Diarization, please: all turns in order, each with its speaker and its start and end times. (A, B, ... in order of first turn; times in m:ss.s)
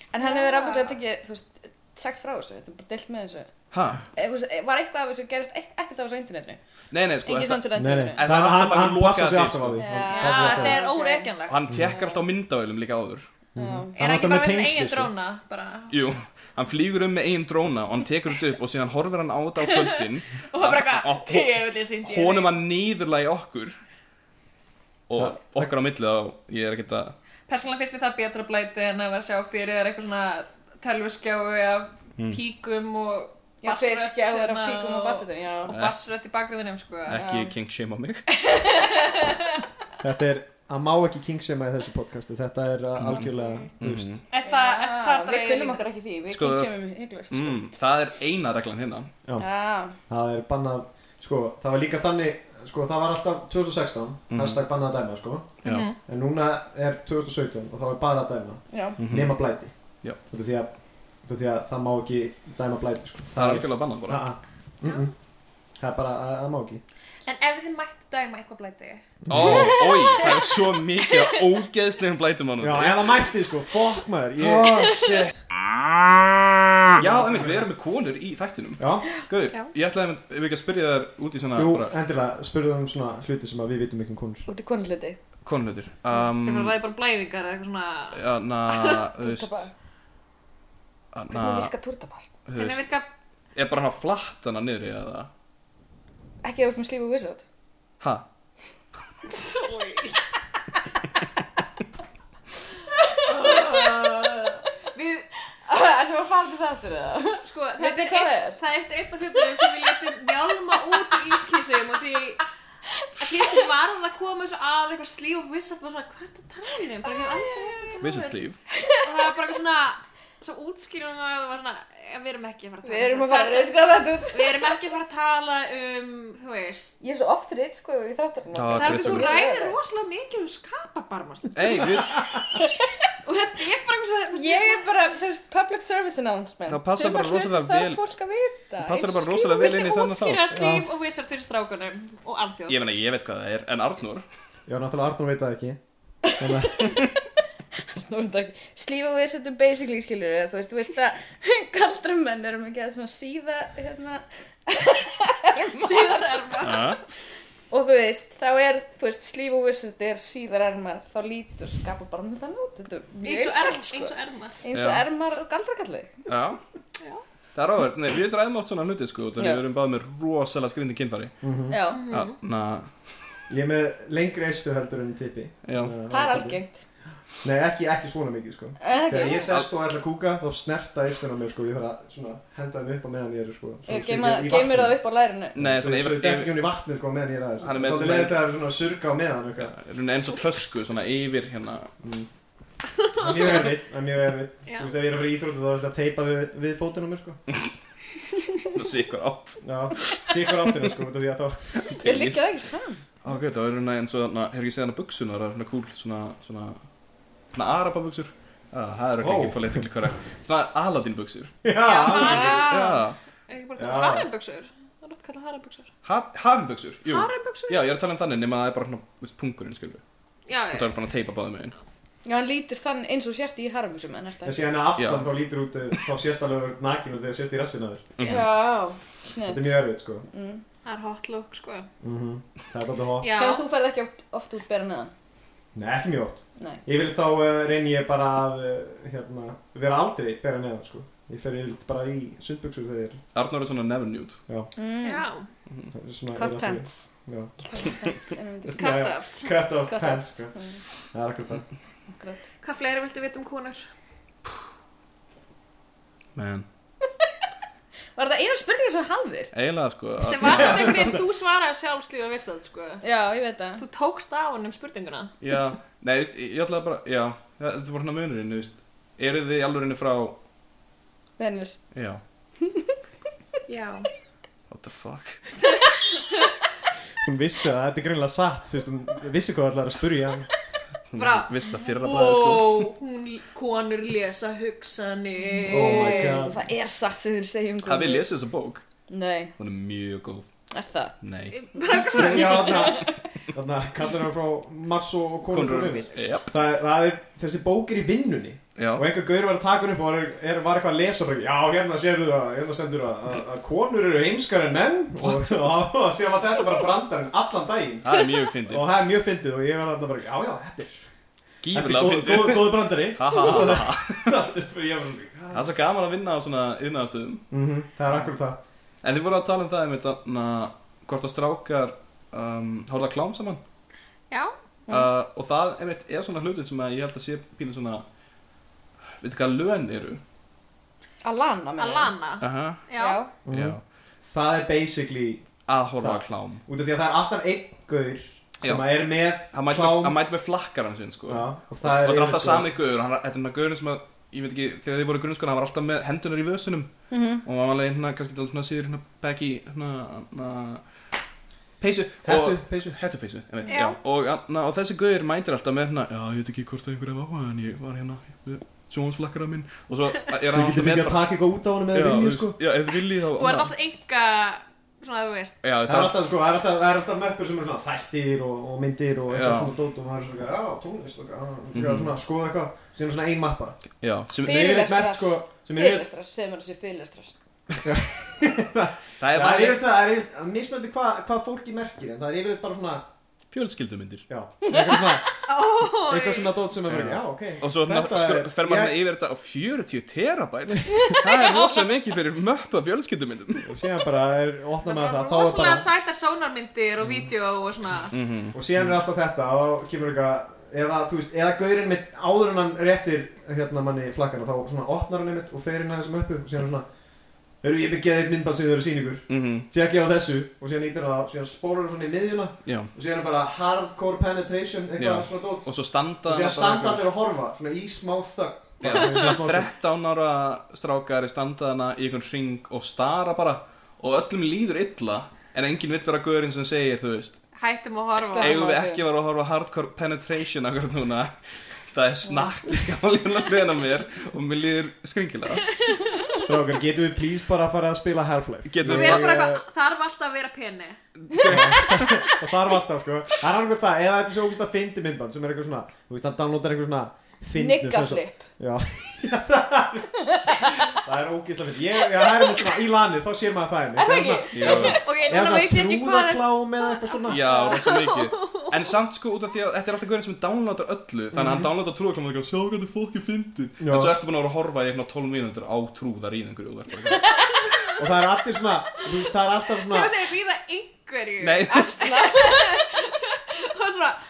0:00.1-0:03.5 A
0:00.2-0:00.9 B
0:03.7-0:04.0 C
0:04.1-0:06.6 A
0:06.9-0:09.9 C
0:07.2-0:08.2 A
0:07.7-0:10.8 D
0:09.8-0:11.3 A
0:10.1-0:11.6 B
0:11.5-0:13.3 C
0:11.8-0:12.2 A
0:13.5-0:15.1 D
0:13.6-0:13.9 A
0:14.0-0:16.0 B
0:15.9-0:23.8 C
0:19.7-0:22.5 B
0:25.1-0:27.1 C
0:25.1-0:25.7 D
0:27.5-0:37.2 B
0:33.6-0:35.7 A
0:35.7-0:35.9 C
0:37.0-0:38.3 C
0:37.1-0:37.5 A
0:38.5-0:39.1 A
0:40.0-0:44.2 D
0:43.0-0:44.2 C
0:44.3-0:45.8 B
0:44.4-0:47.7 A
0:46.3-0:49.1 C
0:49.4-0:49.9 A
0:50.1-1:05.1 D
0:54.3-0:54.6 C
0:55.6-0:56.0 B
0:58.7-0:59.0 A
0:59.0-0:59.4 C
1:03.3-1:04.2 C
1:04.8-1:05.1 B
1:05.8-1:06.8 D
1:07.2-1:10.4 B
1:09.2-1:09.8 D
1:09.3-1:13.2 C
1:11.0-1:11.3 B
1:12.6-1:15.2 D
1:14.4-1:15.3 C
1:16.9-1:17.6 D
1:17.0-1:21.9 C
1:18.8-1:19.1 D
1:21.5-1:24.4 D
1:24.5-1:25.2 A
1:25.4-1:26.7 C
1:26.1-1:29.0 B
1:28.1-1:29.7 C
1:29.2-1:29.7 A
1:31.1-1:31.7 C
1:31.3-1:32.2 A
1:32.4-1:32.8 C
1:32.5-1:33.1 B
1:33.5-1:35.3 C
1:36.4-1:37.4 A
1:38.0-1:38.2 C
1:39.3-1:40.2 B
1:43.2-1:45.2 B
1:43.4-1:44.3 A
1:45.6-1:48.6 A
1:47.4-1:52.4 B
1:53.0-1:53.4 A
1:53.2-1:58.4 B
1:57.3-1:58.0 A
1:58.0-1:58.6 C
1:59.0-2:07.0 B
2:02.8-2:04.7 A
2:07.0-2:09.8 A
2:08.5-2:09.4 C
2:08.7-2:12.0 B
2:11.5-2:12.3 C
2:12.5-2:12.9 A
2:13.2-2:14.9 B
2:14.3-2:19.5 A
2:16.7-2:18.0 C
2:18.8-2:20.6 C
2:19.4-2:22.8 B
2:20.5-2:20.8 D
2:22.7-2:24.2 C
2:24.7-2:25.8 D
2:26.4-2:27.0 D
2:26.7-2:27.0 A
2:27.9-2:36.6 A
2:35.8-2:37.0 B
2:36.6-2:37.0 C
2:37.7-2:46.2 A
2:43.2-2:44.6 B
2:44.7-2:45.0 C
2:46.3-2:46.6 C
2:47.5-2:51.3 C
2:49.4-2:49.6 A
2:51.4-2:51.8 D
2:51.7-2:52.1 A
2:51.9-2:52.4 B
2:52.1-2:52.9 C
2:53.5-2:56.6 D
2:55.6-2:55.9 C
2:56.1-2:56.7 A
2:57.4-3:05.0 D
2:58.8-2:59.5 A
3:03.9-3:05.6 A
3:05.5-3:06.6 C
3:05.6-3:09.7 D
3:07.6-3:08.4 C
3:09.6-3:11.9 C
3:12.0-3:12.3 D
3:13.0-3:13.7 B
3:13.2-3:17.4 D
3:18.7-3:20.3 C
3:19.6-3:21.7 D
3:21.7-3:22.5 C
3:22.0-3:23.0 A
3:23.2-3:26.8 C
3:27.5-3:31.6 C
3:29.2-3:29.6 D
3:31.6-3:32.7 D
3:31.8-3:35.9 B
3:32.0-3:33.0 A
3:32.7-3:33.2 C
3:33.8-3:34.2 D
3:36.0-3:40.0 C
3:37.1-3:37.9 B
3:40.5-3:40.9 B
3:40.7-3:41.7 C
3:42.2-3:44.6 A
3:44.4-3:48.1 D
3:45.0-3:45.3 C
3:48.2-3:48.5 C
3:48.2-3:49.8 A
3:49.4-3:50.2 D
3:50.3-3:50.6 A
3:50.8-3:51.9 B
3:52.0-3:53.3 D
3:53.2-3:53.6 B
3:53.3-3:55.1 A
3:55.7-4:03.2 D
4:03.3-4:04.4 C
4:04.8-4:05.3 A
4:05.0-4:05.5 B
4:05.9-4:07.5 D
4:06.3-4:07.1 A
4:07.7-4:09.0 A
4:08.6-4:10.5 D
4:08.7-4:09.6 B
4:09.9-4:10.8 A
4:11.1-4:11.6 D
4:12.1-4:12.4 A
4:12.6-4:13.8 B
4:16.3-4:16.6 C
4:18.2-4:19.5 A
4:19.5-4:21.1 C
4:20.2-4:23.0 B
4:20.4-4:21.2 D
4:23.0-4:23.8 A
4:23.8-4:25.3 B
4:25.4-4:30.4 C
4:31.4-4:31.8 A
4:31.9-4:32.2 C
4:32.6-4:32.9 A
4:33.7-4:34.1 B
4:34.7-4:35.5 C
4:37.2-4:40.5 D
4:41.1-4:42.9 C
4:41.1-4:46.4 B
4:45.6-4:48.3 A
4:45.7-4:46.6 D
4:47.8-4:48.8 C
4:49.1-4:49.5 A
4:49.6-4:50.5 C
4:50.7-4:51.1 A
4:51.2-4:51.5 C
4:51.5-4:53.1 B
4:51.7-4:53.1 A
4:52.1-5:11.0 D
4:55.5-4:56.5 C
4:58.8-4:59.1 C
5:05.2-5:05.8 C
5:08.0-5:09.0 C
5:11.6-5:14.4 C
5:11.7-5:15.7 D
5:15.5-5:17.5 C
5:17.5-5:18.6 D
5:19.0-5:23.6 C
5:24.9-5:28.0 C
5:29.2-5:30.2 C
5:31.2-5:32.1 A
5:31.8-5:33.3 B
5:32.4-5:32.8 C
5:33.0-5:33.3 A
5:33.4-5:35.4 D
5:33.5-5:33.8 C
5:35.7-5:36.6 C
5:36.0-5:40.2 D
5:38.6-5:46.9 C
5:41.3-5:42.7 D
5:47.1-5:47.4 A
5:47.4-5:50.8 C
5:51.8-6:01.2 C
5:52.2-5:52.9 D
5:53.7-5:54.0 B
6:00.5-6:02.6 D
6:01.9-6:03.7 C
6:03.4-6:05.6 B
6:05.6-6:06.2 C
6:05.8-6:13.8 D
6:09.3-6:09.7 C
6:11.7-6:12.1 C
6:14.0-6:14.7 C
6:14.4-6:16.1 D
6:14.4-6:17.3 A
6:17.8-6:23.0 D
6:19.2-6:19.8 C
6:23.5-6:24.2 C
6:24.3-6:25.3 D
6:24.7-6:25.0 A
6:25.3-6:26.5 B
6:26.1-6:28.9 D
6:26.9-6:33.7 C
6:31.3-6:31.8 B
6:33.6-6:35.8 D
6:34.8-6:38.1 B
6:38.1-6:38.9 C
6:38.5-6:46.8 D
6:47.6-6:55.7 D
6:49.3-6:49.7 C
6:52.6-6:52.9 C
6:55.0-6:57.1 C
6:56.2-6:59.7 D
6:58.8-7:07.4 C
7:07.5-7:08.6 B
7:08.2-7:09.0 A
7:08.4-7:11.3 C
7:11.9-7:15.8 C
7:15.8-7:16.1 B
7:16.3-7:19.6 D
7:18.7-7:19.4 C
7:18.8-7:21.0 B
7:21.2-7:22.2 C
7:21.3-7:21.6 A
7:21.4-7:37.5 D
7:27.6-7:28.4 A
7:30.3-7:30.7 A
7:34.0-7:35.0 A
7:34.5-7:35.0 C
7:34.7-7:38.9 B
7:37.3-7:47.5 C
7:41.3-7:41.7 D
7:43.8-7:44.1 D
7:48.0-7:50.1 D
7:49.8-7:54.2 B
7:51.4-7:52.1 C
7:51.7-7:52.9 A